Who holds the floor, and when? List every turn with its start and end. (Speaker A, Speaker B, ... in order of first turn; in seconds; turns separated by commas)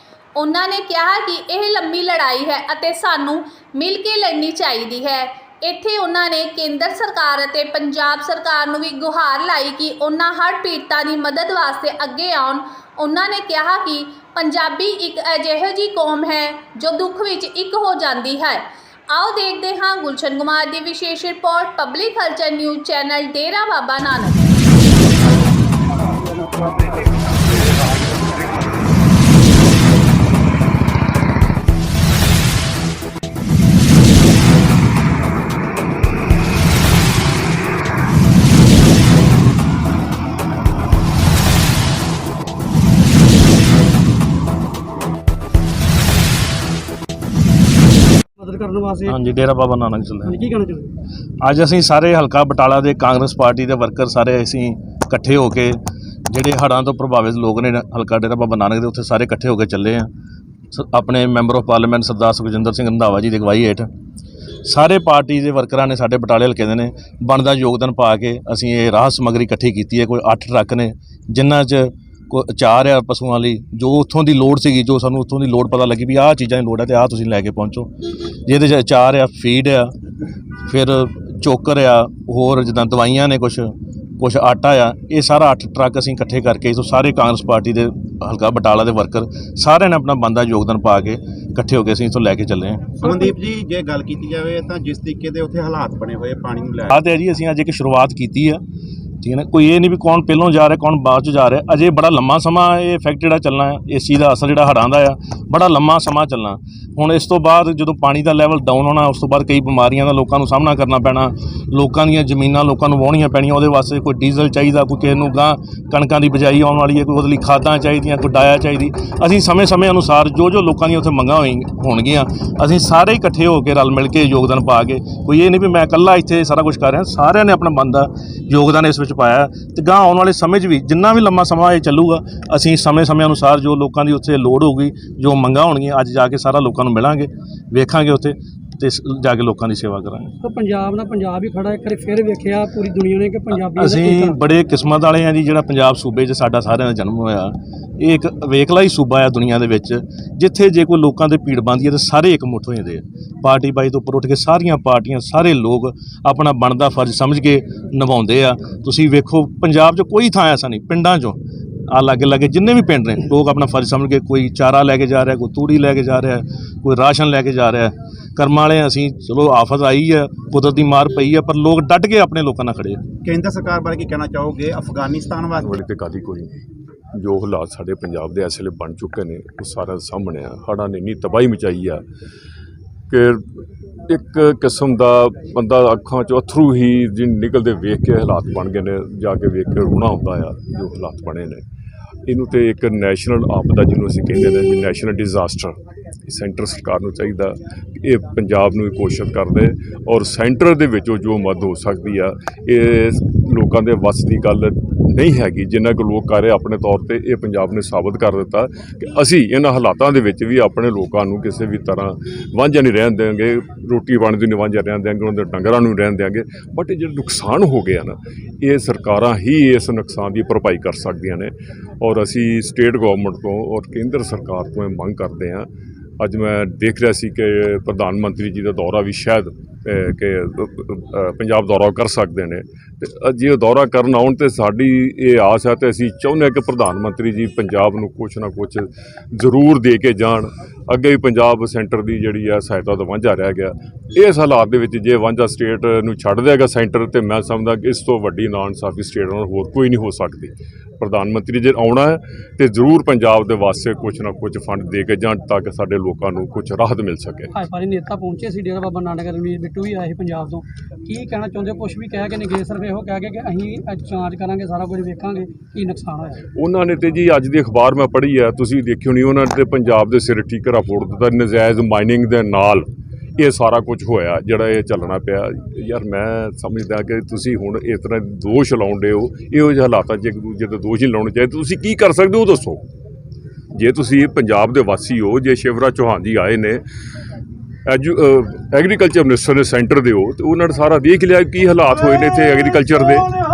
Speaker A: 0.3-24.4, Speaker B: 48.4-49.2, Speaker C: 49.1-50.4, Speaker B: 50.2-50.9, Speaker C: 51.4-60.1, Speaker C: 60.7-63.9, Speaker C: 64.6-77.9, Speaker C: 78.5-79.9, Speaker C: 80.7-93.0, Speaker D: 93.0-97.0, Speaker C: 96.9-98.6, Speaker C: 99.2-140.3, Speaker B: 140.4-144.4, Speaker C: 143.5-161.4, Speaker C: 161.9-173.0, Speaker D: 173.2-175.7, Speaker E: 175.6-176.6, Speaker E: 177.2-182.0, Speaker E: 183.1-183.4, Speaker E: 184.1-191.6, Speaker E: 192.3-195.7, Speaker E: 196.3-225.7, Speaker E: 226.2-257.5, Speaker B: 257.5-266.4, Speaker E: 266.6-282.8, Speaker E: 283.7-286.8, Speaker E: 287.9-293.3